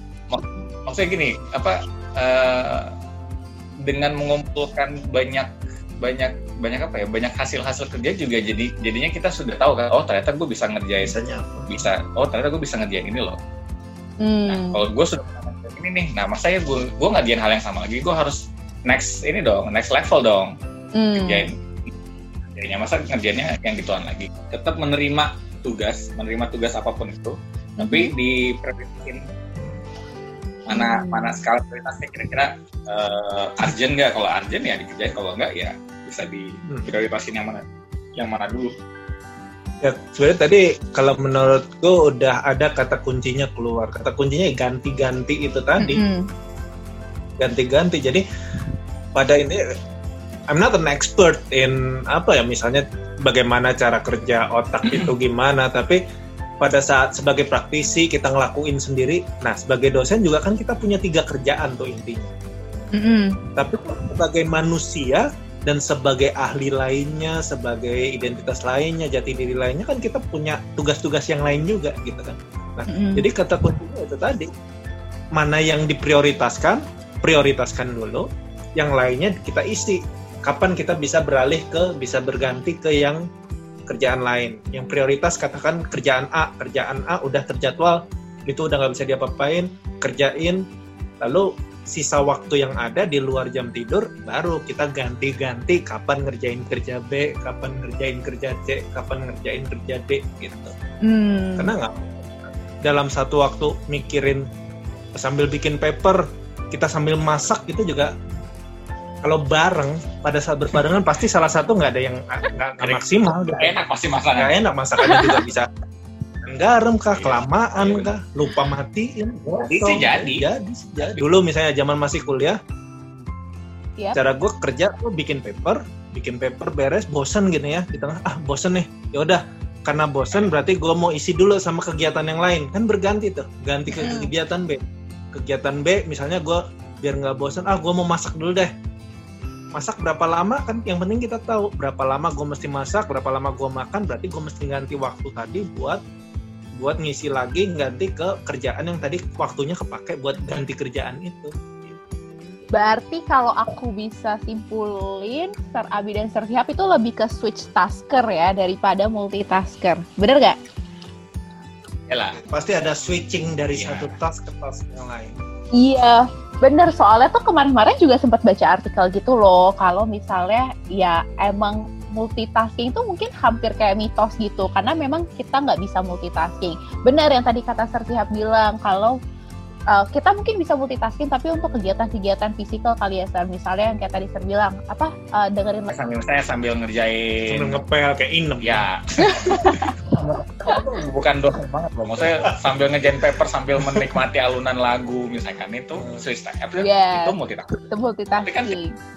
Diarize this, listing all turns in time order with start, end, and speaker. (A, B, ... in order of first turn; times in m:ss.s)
0:00.3-0:02.9 A
0:03.8-0:05.5 A
0:06.0-0:11.1 A
0:11.0-0:11.8 B
0:11.7-0:13.4 A
0:14.2-0:14.8 C
0:14.5-0:20.5 A
0:21.0-0:21.5 C
0:21.1-0:21.5 A
0:22.5-0:29.2 A
0:27.8-0:28.1 C
0:30.7-0:37.6 A
0:30.7-0:31.3 C
0:38.2-0:38.7 A
0:39.8-0:46.0 B
0:45.8-0:46.2 C
0:47.4-0:48.2 B
0:49.1-0:49.6 B
0:50.5-0:56.0 B
0:56.6-1:02.3 B
1:02.9-1:03.4 C
1:03.6-1:14.5 B
1:12.9-1:13.3 C
1:15.3-1:18.2 B
1:18.8-1:23.2 B
1:23.9-1:30.6 B
1:31.2-1:40.7 B
1:41.0-1:41.7 C
1:41.6-1:44.5 B
1:45.1-1:48.1 B
1:49.2-1:53.8 B
1:52.8-1:54.5 A
1:54.4-1:55.7 B
1:55.0-1:55.4 C
1:56.4-2:02.6 B
1:57.1-1:58.1 A
1:59.7-2:00.4 A
2:01.0-2:01.3 A
2:04.1-2:14.8 B
2:14.0-2:14.3 C
2:15.3-2:18.7 B
2:19.7-2:26.0 B
2:26.8-2:32.0 B
2:32.7-2:40.6 C
2:42.1-2:42.4 A
2:42.3-2:45.4 B
2:43.8-2:44.1 A
2:45.8-2:59.1 C
2:59.9-3:05.9 C
3:05.9-3:07.8 A
3:07.5-3:08.8 B
3:08.6-3:17.7 A
3:09.2-3:09.9 C
3:12.2-3:12.7 B
3:16.8-3:17.3 C
3:17.9-3:18.9 C
3:18.4-3:18.8 A